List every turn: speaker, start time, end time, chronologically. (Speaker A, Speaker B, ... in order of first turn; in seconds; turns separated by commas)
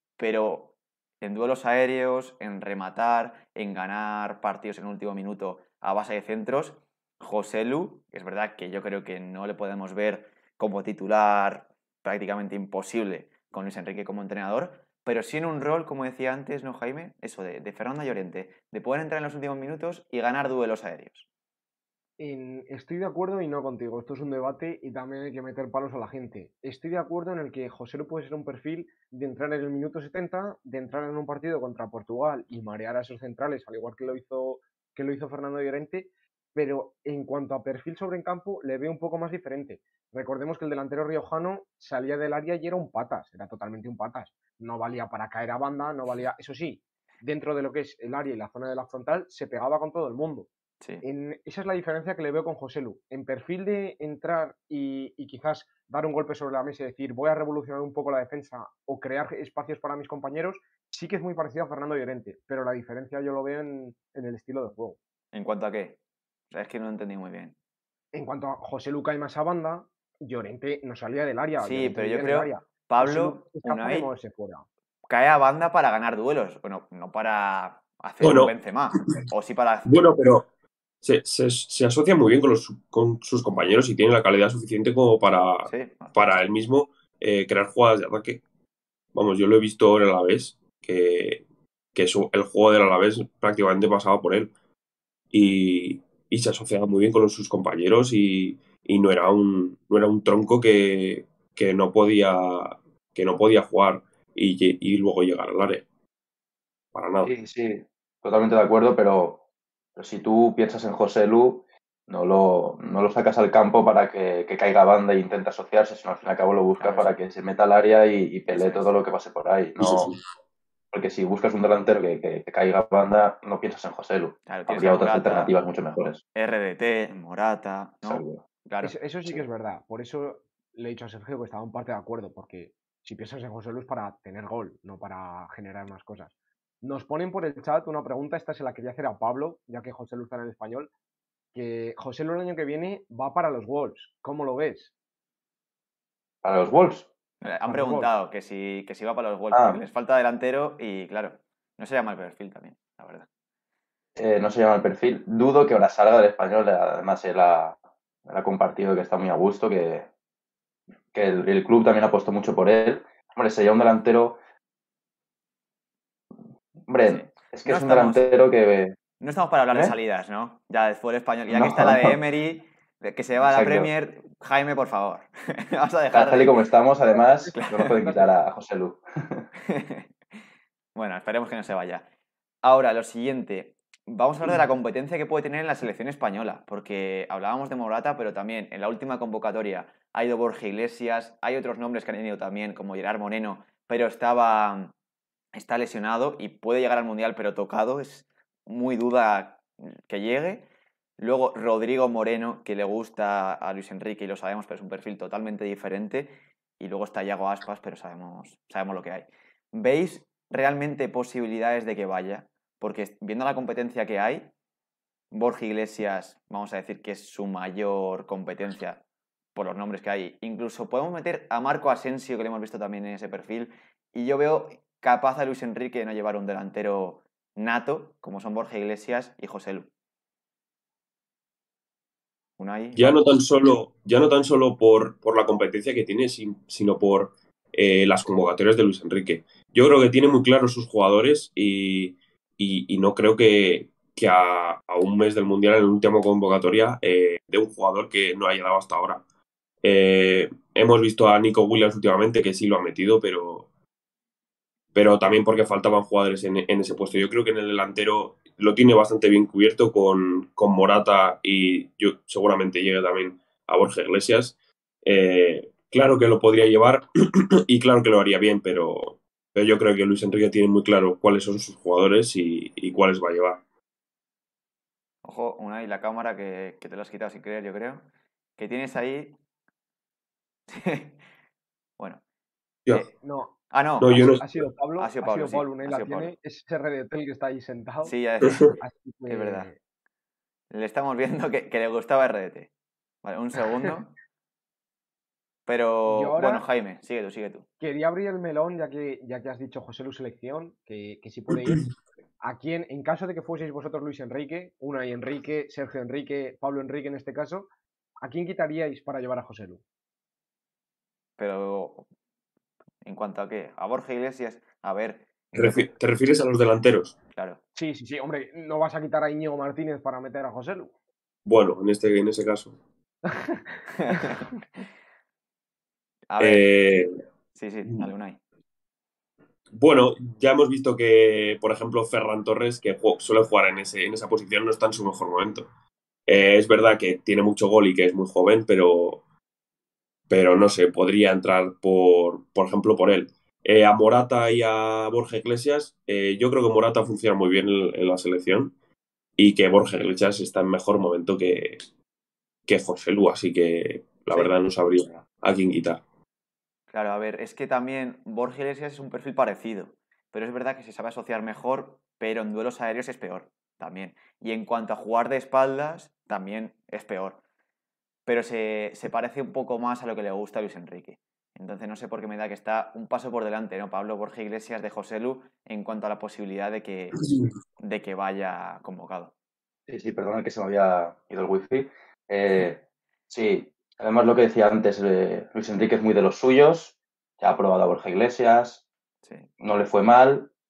Speaker A: 0.2-21.3, Speaker B: 22.2-50.5, Speaker B: 51.0-65.0, Speaker A: 65.3-66.0, Speaker A: 66.5-67.5, Speaker B: 68.1-74.7, Speaker A: 71.6-74.1, Speaker A: 75.1-80.1, Speaker C: 78.2-79.3, Speaker C: 79.9-80.5, Speaker C: 81.0-88.4, Speaker A: 85.7-86.1, Speaker C: 89.1-91.4, Speaker C: 92.0-94.5, Speaker C: 95.3-105.8, Speaker C: 107.0-107.3, Speaker D: 107.2-109.4, Speaker D: 110.0-120.1, Speaker A: 116.8-117.1, Speaker A: 118.5-119.0, Speaker C: 119.8-120.2, Speaker D: 120.9-126.2, Speaker A: 124.5-125.5, Speaker A: 126.3-128.9, Speaker D: 128.0-128.4, Speaker B: 128.8-140.9, Speaker B: 141.5-144.9, Speaker D: 146.4-147.1, Speaker A: 147.4-153.3, Speaker B: 147.7-148.1, Speaker D: 149.5-149.8, Speaker D: 154.2-160.1, Speaker D: 161.1-164.4, Speaker D: 166.9-169.0, Speaker A: 167.1-168.3, Speaker A: 169.2-176.6, Speaker D: 171.5-172.2, Speaker D: 173.4-173.9, Speaker D: 176.1-179.5, Speaker B: 177.1-178.3, Speaker A: 177.5-178.0, Speaker A: 179.7-180.1, Speaker A: 180.9-182.1, Speaker A: 182.6-194.9, Speaker A: 195.5-200.7, Speaker A: 201.2-214.5, Speaker A: 215.3-219.0, Speaker A: 219.6-229.9, Speaker A: 232.6-233.2, Speaker C: 233.0-249.2, Speaker C: 249.8-253.7, Speaker C: 254.9-273.6, Speaker A: 275.2-279.4, Speaker A: 280.7-281.2, Speaker B: 283.1-283.6, Speaker A: 283.7-284.2, Speaker C: 284.0-284.6, Speaker B: 284.1-288.1, Speaker A: 285.0-286.3, Speaker A: 288.0-289.7, Speaker B: 288.7-289.8, Speaker A: 290.7-292.7, Speaker A: 293.2-294.1, Speaker A: 295.7-297.7, Speaker B: 296.1-296.7, Speaker B: 297.8-301.9, Speaker B: 302.4-307.7, Speaker B: 308.2-309.8, Speaker A: 311.4-312.1, Speaker A: 313.0-315.9, Speaker C: 315.5-317.1, Speaker A: 317.3-317.6, Speaker B: 317.8-320.9, Speaker C: 321.5-322.8, Speaker B: 323.3-324.4, Speaker A: 324.0-324.4, Speaker A: 326.3-326.7, Speaker C: 326.4-327.1, Speaker A: 327.5-328.4, Speaker C: 329.7-335.7, Speaker C: 336.3-339.2, Speaker C: 340.3-348.7, Speaker C: 349.4-351.8, Speaker C: 352.7-356.0, Speaker A: 356.9-367.4, Speaker A: 368.3-377.2, Speaker A: 377.8-379.3, Speaker D: 379.9-388.8, Speaker A: 389.2-389.5, Speaker D: 389.6-390.5